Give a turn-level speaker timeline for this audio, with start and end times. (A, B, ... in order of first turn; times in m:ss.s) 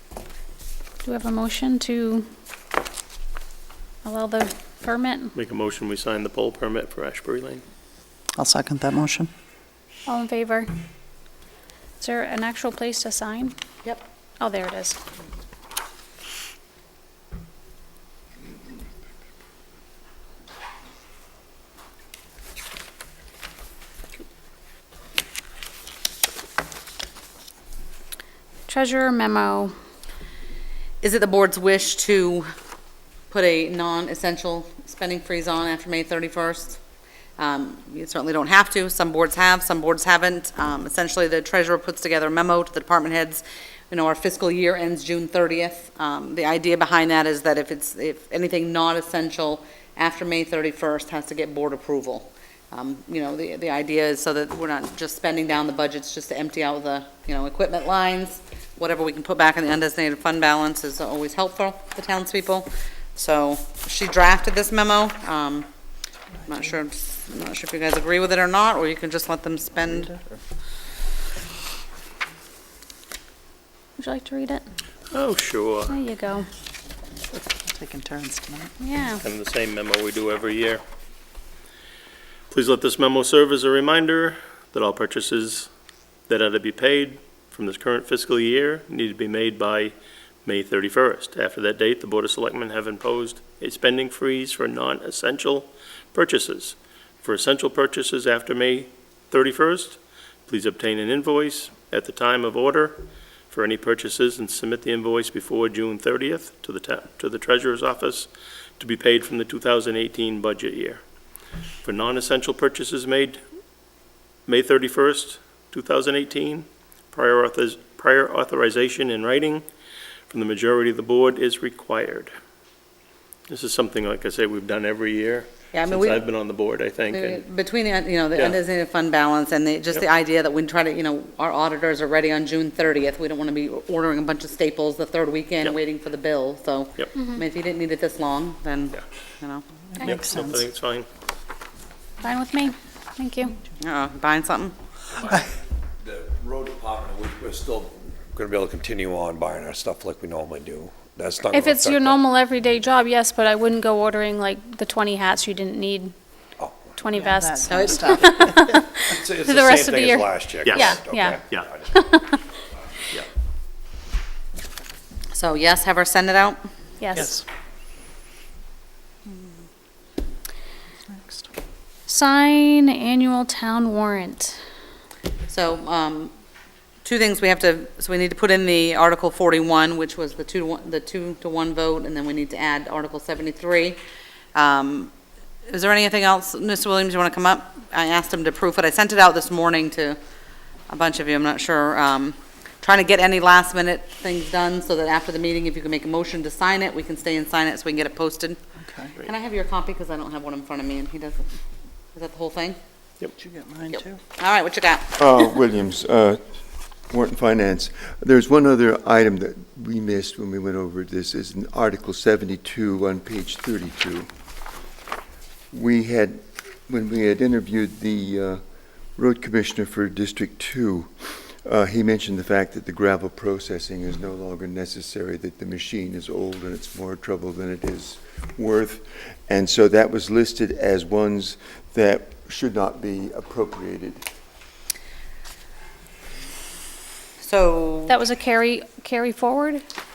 0:01.0-0:02.2 A
0:04.0-0:05.3 A
0:05.4-0:07.6 B
0:08.4-0:09.3 C
0:10.1-0:10.7 A
0:12.0-0:13.5 A
0:14.4-0:15.0 A
0:28.7-0:29.7 A
0:31.0-0:32.5 D
0:33.3-0:36.8 D
0:37.4-1:05.7 D
1:06.5-1:10.1 D
1:09.9-1:10.4 C
1:14.0-1:14.6 A
1:15.1-1:16.0 B
1:15.9-1:16.5 A
1:17.3-1:18.7 C
1:18.8-1:19.2 A
1:19.2-1:20.8 B
1:22.5-1:25.7 B
1:26.3-1:51.0 B
1:51.8-1:53.4 B
1:54.5-1:59.6 B
2:00.3-2:02.3 B
2:03.5-2:07.4 B
2:05.7-2:06.2 D
2:07.1-2:19.6 D
2:17.2-2:17.4 A
2:19.9-2:20.6 C
2:20.0-2:21.1 B
2:22.2-2:23.5 A
2:23.8-2:24.7 D
2:26.0-2:32.2 E
2:31.5-2:36.1 A
2:36.6-2:37.0 E
2:37.0-2:38.9 A
2:37.1-2:38.8 C
2:37.7-2:38.2 D
2:39.1-2:41.9 E
2:39.4-2:41.4 A
2:40.6-2:41.7 B
2:41.9-2:42.4 A
2:45.3-2:46.6 D
2:47.0-2:47.3 A
2:47.2-2:47.4 C
2:51.1-2:51.5 C
2:52.1-2:54.6 A
2:55.5-2:56.3 D
2:57.0-3:04.0 D
3:04.5-3:05.1 D
3:05.7-3:10.2 D
3:10.9-3:18.6 D
3:18.8-3:19.1 C
3:19.2-3:21.5 D
3:22.1-3:22.8 D
3:23.4-3:24.2 C
3:23.9-3:25.2 D
3:25.2-3:26.4 F
3:27.1-3:34.3 F
3:35.7-3:38.6 F
3:39.2-3:41.1 F
3:41.6-3:54.2 F
3:57.4-3:58.2 D
3:58.1-3:59.8 A